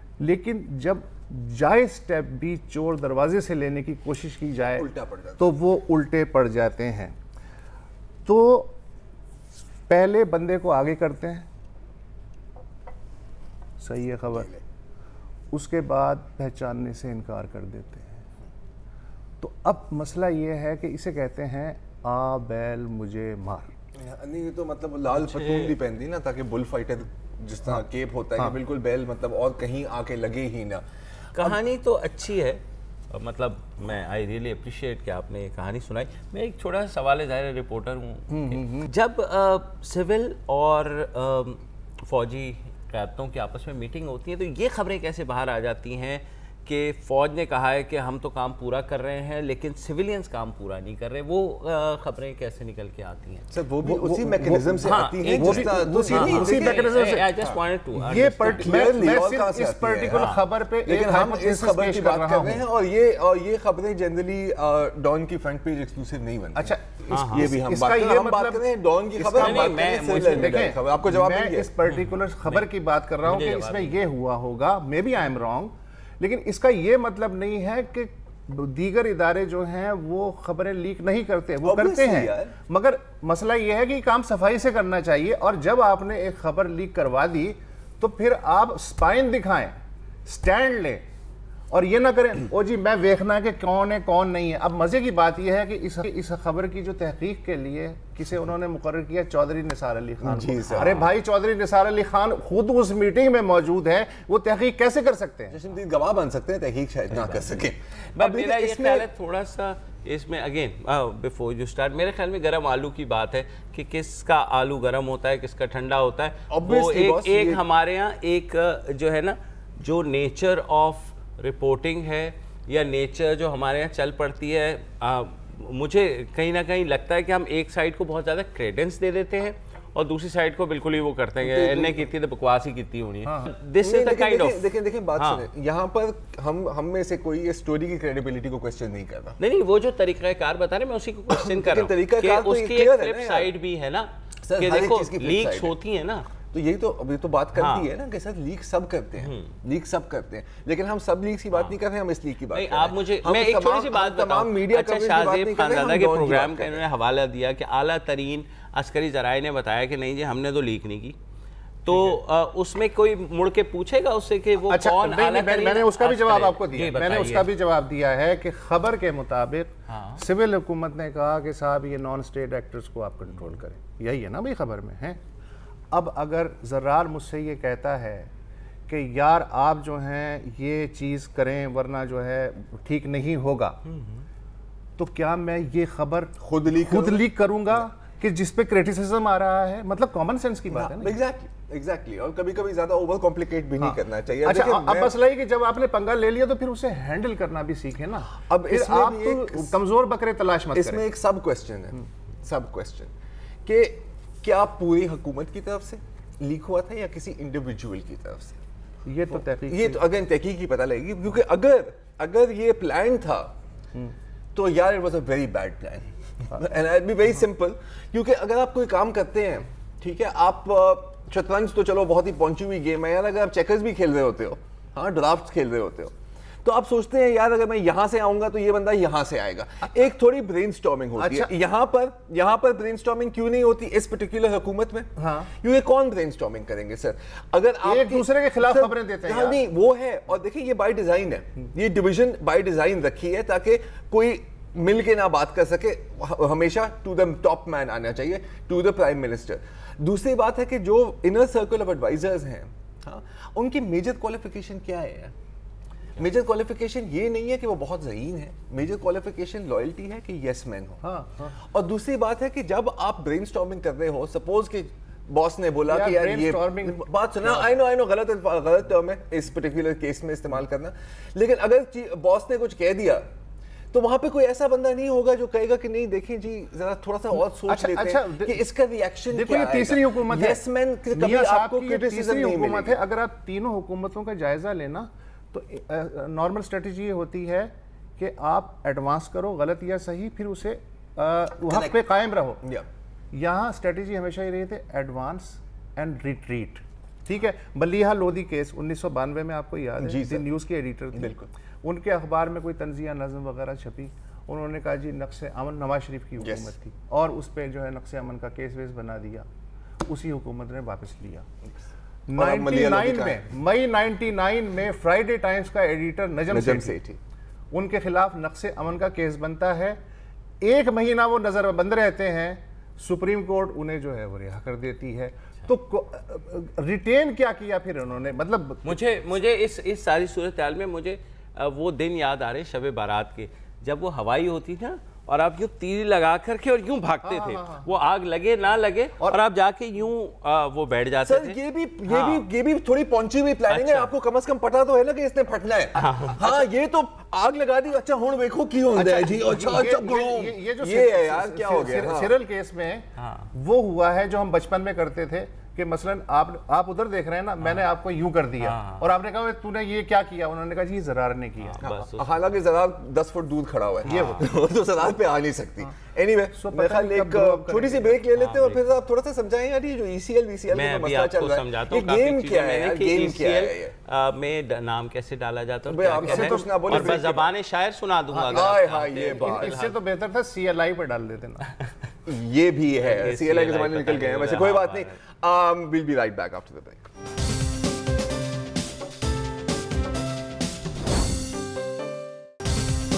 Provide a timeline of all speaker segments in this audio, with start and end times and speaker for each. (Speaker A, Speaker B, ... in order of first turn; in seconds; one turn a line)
Speaker A: 0.2-7.2
Speaker B: 4.8-5.5
Speaker A: 8.2-8.8
Speaker A: 9.9-11.5
Speaker A: 13.8-14.6
Speaker A: 15.5-18.2
Speaker A: 19.4-23.8
Speaker B: 24.0-30.8
Speaker C: 25.2-25.7
Speaker C: 31.4-53.5
Speaker A: 38.3-38.9
Speaker B: 53.5-57.6
Speaker A: 53.8-57.4
Speaker C: 54.8-58.9
Speaker A: 58.0-62.7
Speaker B: 58.4-71.7
Speaker C: 60.1-60.4
Speaker A: 66.5-91.0
Speaker C: 67.1-67.5
Speaker C: 69.3-70.8
Speaker C: 71.9-72.7
Speaker C: 73.2-74.0
Speaker B: 81.6-82.5
Speaker A: 91.7-105.6
Speaker B: 100.2-101.1
Speaker C: 100.7-101.1
Speaker B: 105.5-109.1
Speaker C: 108.2-135.5
Speaker B: 116.5-117.6
Speaker B: 131.4-132.1
Speaker A: 133.2-133.5
Speaker B: 133.8-139.4
Speaker C: 139.4-146.3
Speaker B: 141.3-143.5
Speaker B: 144.4-145.7
Speaker B: 146.5-156.8
Speaker C: 147.6-147.9
Speaker C: 149.2-149.6
Speaker C: 152.5-161.2
Speaker C: 161.9-167.5
Speaker A: 164.7-175.2
Speaker C: 169.9-170.2
Speaker A: 175.9-178.3
Speaker A: 178.9-183.8
Speaker A: 185.0-191.2
Speaker B: 186.4-187.2
Speaker B: 190.7-195.1
Speaker A: 193.8-201.1
Speaker B: 198.5-199.7
Speaker B: 200.8-203.1
Speaker B: 203.7-208.6
Speaker A: 209.1-210.0
Speaker B: 209.7-213.5
Speaker B: 214.5-255.3
Speaker A: 231.2-231.5
Speaker A: 235.2-235.5
Speaker A: 237.8-239.6
Speaker B: 256.2-261.0
Speaker A: 261.0-261.6
Speaker B: 261.6-273.3
Speaker A: 265.9-267.7
Speaker B: 273.9-282.9
Speaker A: 277.7-278.7
Speaker A: 279.3-292.6
Speaker B: 291.7-292.0
Speaker A: 293.3-309.5
Speaker B: 300.0-300.5
Speaker B: 301.1-301.5
Speaker B: 306.4-306.7
Speaker A: 310.0-311.5
Speaker A: 312.3-317.0
Speaker B: 312.3-313.4
Speaker B: 316.5-317.2
Speaker A: 317.7-320.0
Speaker A: 320.6-329.0
Speaker C: 328.9-342.5
Speaker A: 337.2-337.9
Speaker B: 341.2-352.3
Speaker C: 343.7-344.1
Speaker C: 346.0-346.6
Speaker A: 348.9-361.9
Speaker C: 353.2-353.5
Speaker C: 358.6-359.1
Speaker C: 361.6-362.3
Speaker B: 361.8-373.9
Speaker C: 364.1-364.4
Speaker A: 364.1-364.5
Speaker A: 366.6-368.2
Speaker C: 368.3-368.8
Speaker C: 370.7-380.0
Speaker B: 375.9-377.5
Speaker A: 376.1-377.2
Speaker A: 378.3-381.7
Speaker B: 378.5-379.8
Speaker B: 382.3-387.1
Speaker C: 383.0-385.2